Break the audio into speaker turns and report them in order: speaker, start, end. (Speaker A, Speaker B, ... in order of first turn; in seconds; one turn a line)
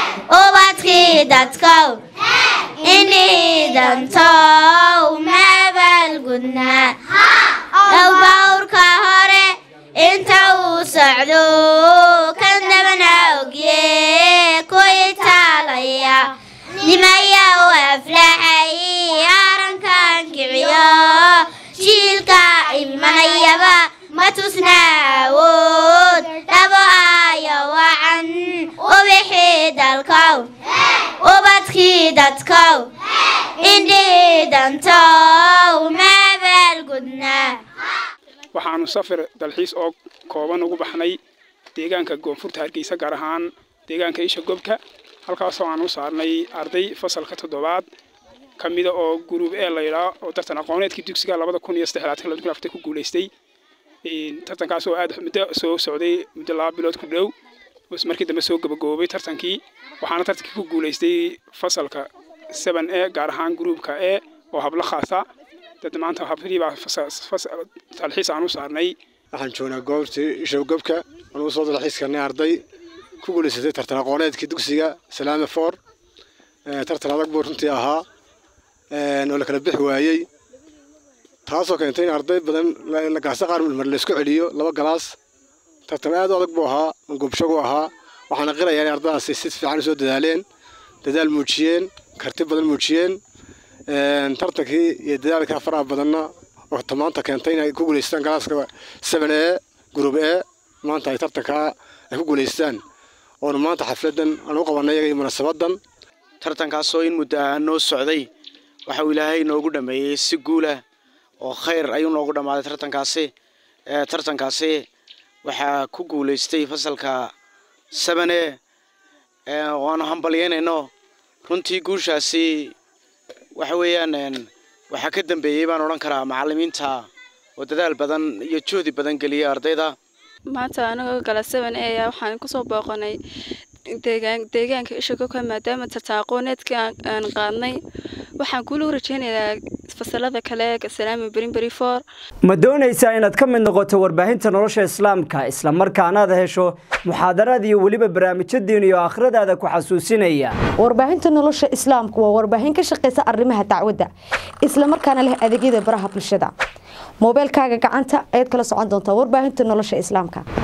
Speaker A: 0.3-2.0
Speaker A: 2.8-7.0
Speaker A: 7.8-30.5
Speaker A: 31.2-32.9
Speaker A: 33.6-37.6
Speaker B: 38.5-41.2
Speaker B: 41.8-47.9
Speaker B: 48.6-53.3
Speaker B: 54.0-57.3
Speaker B: 57.9-65.2
Speaker B: 65.8-69.0
Speaker C: 69.3-72.6
Speaker C: 73.2-75.8
Speaker C: 76.7-78.0
Speaker C: 78.9-80.3
Speaker C: 81.5-85.2
Speaker C: 85.9-90.4
Speaker C: 91.0-93.2
Speaker C: 93.9-102.8
Speaker C: 103.4-105.8
Speaker D: 106.4-108.3
Speaker D: 108.9-110.8
Speaker D: 111.4-113.3
Speaker D: 113.9-114.8
Speaker D: 115.4-117.3
Speaker D: 117.9-118.6
Speaker D: 119.5-120.9
Speaker D: 121.5-122.7
Speaker D: 123.6-127.1
Speaker D: 127.6-129.9
Speaker E: 130.5-133.2
Speaker E: 134.0-137.8
Speaker E: 138.4-142.0
Speaker F: 142.4-150.6
Speaker G: 150.8-154.1
Speaker G: 154.6-156.5
Speaker G: 157.2-160.4